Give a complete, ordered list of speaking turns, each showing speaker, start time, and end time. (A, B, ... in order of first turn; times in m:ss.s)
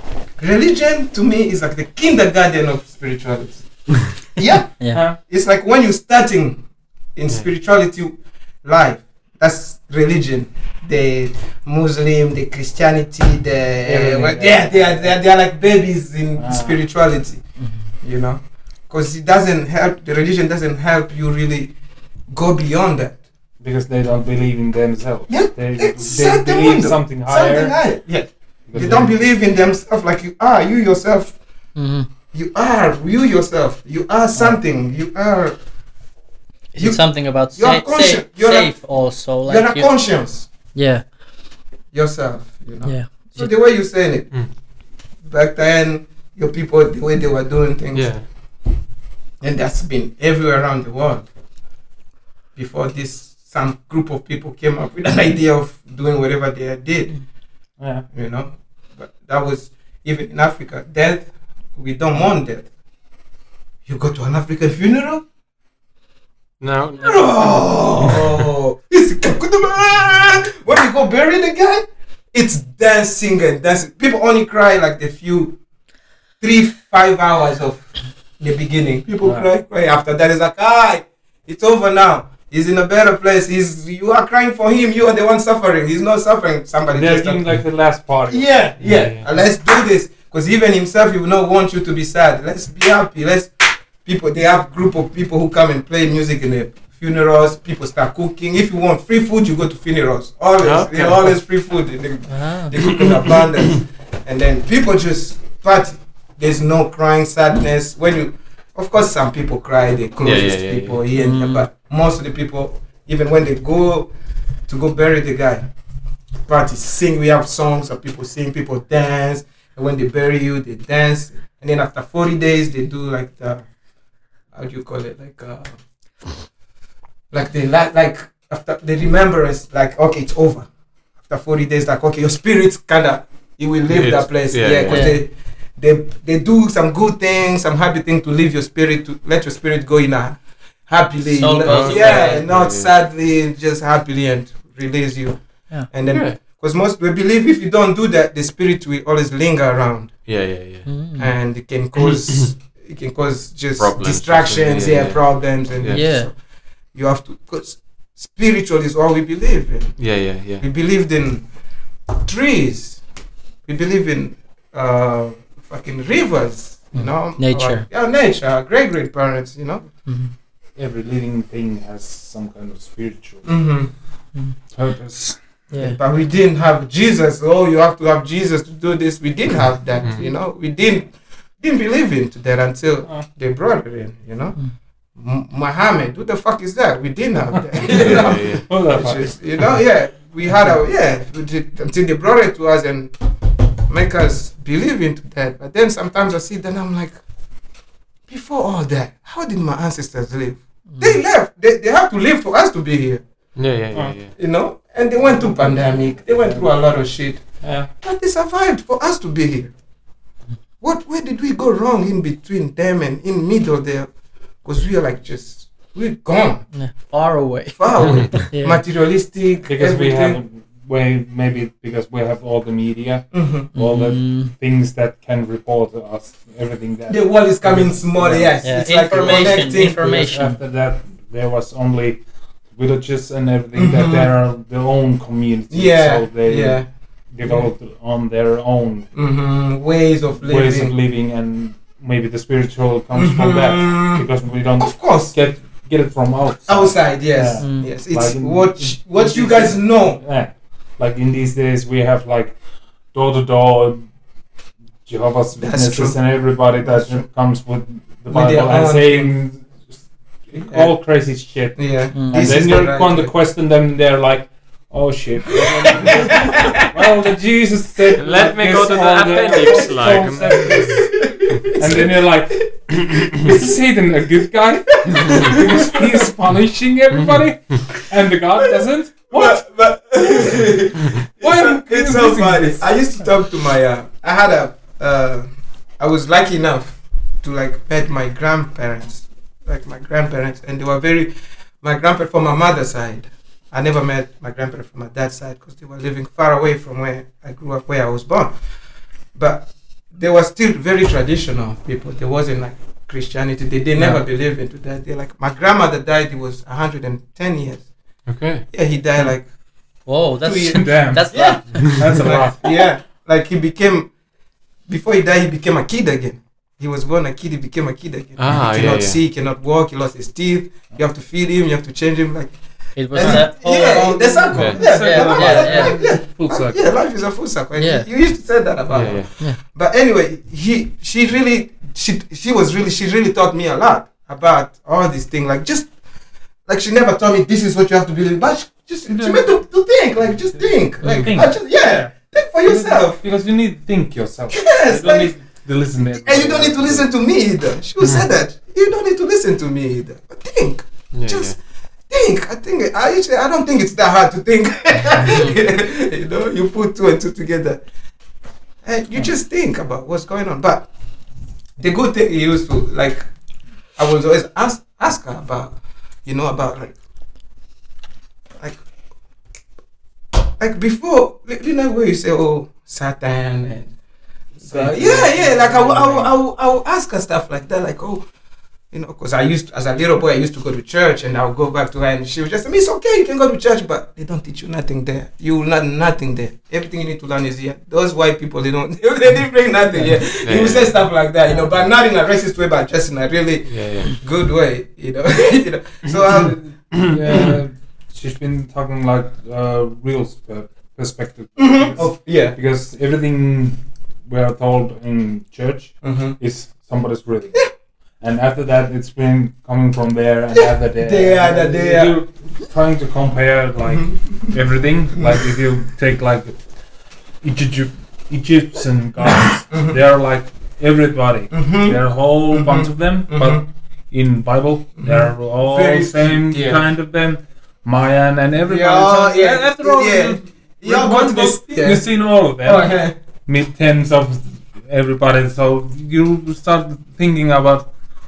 0:00.4-0:06.6 A
0:04.9-0:05.2 B
0:07.1-0:21.7 A
0:13.8-0:15.1 B
0:16.4-0:16.8 B
0:17.6-0:17.8 C
0:22.3-0:23.2 A
0:23.6-0:27.8 B
0:25.3-0:31.4 A
0:28.7-0:29.2 B
0:31.7-0:32.1 C
0:32.3-0:35.6 A
0:34.3-0:34.6 B
0:36.7-0:41.1 C
0:36.8-0:40.5 A
0:41.9-0:44.5 A
0:42.8-0:43.5 C
0:45.2-0:48.4 A
0:47.9-0:48.2 D
0:49.4-0:51.3 A
0:52.6-0:57.2 A
0:57.8-0:58.0 B
0:58.1-1:02.7 A
1:03.9-1:05.2 A
1:06.6-1:07.5 D
1:07.0-1:15.6 A
1:16.4-1:27.4 A
1:26.9-1:28.7 B
1:28.3-1:54.1 A
1:28.8-1:29.2 D
1:40.6-1:41.4 D
1:42.3-1:42.7 C
1:43.1-1:43.4 D
1:50.2-1:51.0 D
1:51.1-1:51.6 C
1:54.7-1:55.7 A
1:56.4-2:03.6 A
2:04.5-2:05.8 A
2:07.3-2:10.7 A
2:11.2-2:30.3 A
2:13.9-2:15.1 D
2:14.9-2:15.2 C
2:21.3-2:22.4 C
2:21.6-2:22.9 D
2:26.1-2:26.4 D
2:30.3-2:30.9 D
2:30.9-2:31.3 C
2:31.2-2:36.4 A
2:32.0-2:32.4 D
2:33.8-2:36.0 D
2:35.9-2:36.3 C
2:36.9-2:41.4 A
2:40.0-2:40.6 D
2:42.2-2:43.0 A
2:43.6-2:49.9 A
2:47.0-2:47.9 C
2:50.1-2:50.3 C
2:50.8-2:53.6 B
2:53.4-2:53.9 A
2:54.7-2:55.4 B
2:55.7-2:56.0 C
2:55.8-3:04.6 A
3:05.2-3:13.1 A
3:07.9-3:08.7 D
3:08.0-3:09.3 B
3:13.9-3:17.2 A
3:18.3-3:23.2 A
3:20.9-3:21.2 C
3:23.6-3:24.3 D
3:24.4-3:27.4 A
3:25.2-3:26.7 B
3:27.6-3:27.9 B
3:28.0-3:29.7 A
3:30.8-3:34.1 A
3:34.6-3:36.7 A
3:36.7-3:38.8 C
3:37.7-3:40.4 A
3:39.6-3:59.1 B
3:43.3-3:43.7 A
3:43.7-3:44.5 C
3:47.1-3:50.3 A
3:48.6-3:50.6 C
3:53.7-3:54.3 A
3:55.7-3:56.9 A
3:59.1-4:00.9 A
4:00.4-4:12.6 B
4:03.1-4:04.2 A
4:04.8-4:05.4 A
4:06.7-4:10.2 A
4:07.6-4:07.9 C
4:13.1-4:14.1 B
4:15.1-4:19.9 B
4:15.6-4:17.2 A
4:18.3-4:19.3 A
4:20.5-4:31.2 B
4:20.5-4:20.9 A
4:21.8-4:23.3 A
4:22.1-4:22.5 C
4:25.6-4:26.9 A
4:28.2-4:30.8 D
4:29.6-4:32.1 A
4:31.7-4:39.6 B
4:33.3-4:33.7 A
4:35.1-4:36.2 A
4:39.3-4:45.4 A
4:40.2-4:40.6 B
4:41.4-4:42.8 B
4:46.0-4:58.6 A
4:59.3-5:07.9 A
5:04.0-5:04.2 B
5:08.2-5:08.7 D
5:08.7-5:14.1 A
5:10.0-5:12.0 C
5:10.6-5:12.9 B
5:14.9-5:35.9 A
5:18.4-5:19.2 D
5:23.0-5:26.0 C
5:23.2-5:23.5 B
5:24.5-5:24.8 D
5:24.6-5:26.8 B
5:27.7-5:28.1 C
5:28.9-5:29.3 D
5:36.6-5:43.2 A
5:39.1-5:39.5 B
5:41.0-5:41.3 D
5:41.0-5:42.1 B
5:42.6-5:47.1 B
5:44.5-5:45.4 A
5:46.2-5:51.6 A
5:51.1-5:51.6 D
5:52.1-5:57.8 A
5:55.2-5:55.6 C
5:58.8-6:00.9 A
6:01.8-6:03.3 A
6:04.0-6:06.9 A
6:10.6-6:13.9 A
6:14.6-6:16.4 B
6:14.6-6:18.3 A
6:18.9-6:37.5 A
6:29.9-6:30.2 B
6:30.4-6:31.1 D
6:33.7-6:34.2 D
6:36.5-6:56.6 B
6:41.6-6:42.6 A
6:46.0-6:46.4 A
6:50.6-6:52.2 A
6:53.9-6:54.6 A
6:57.4-7:17.9 B
6:59.3-7:00.0 A
7:01.5-7:03.6 A
7:05.0-7:06.8 A
7:08.7-7:13.1 A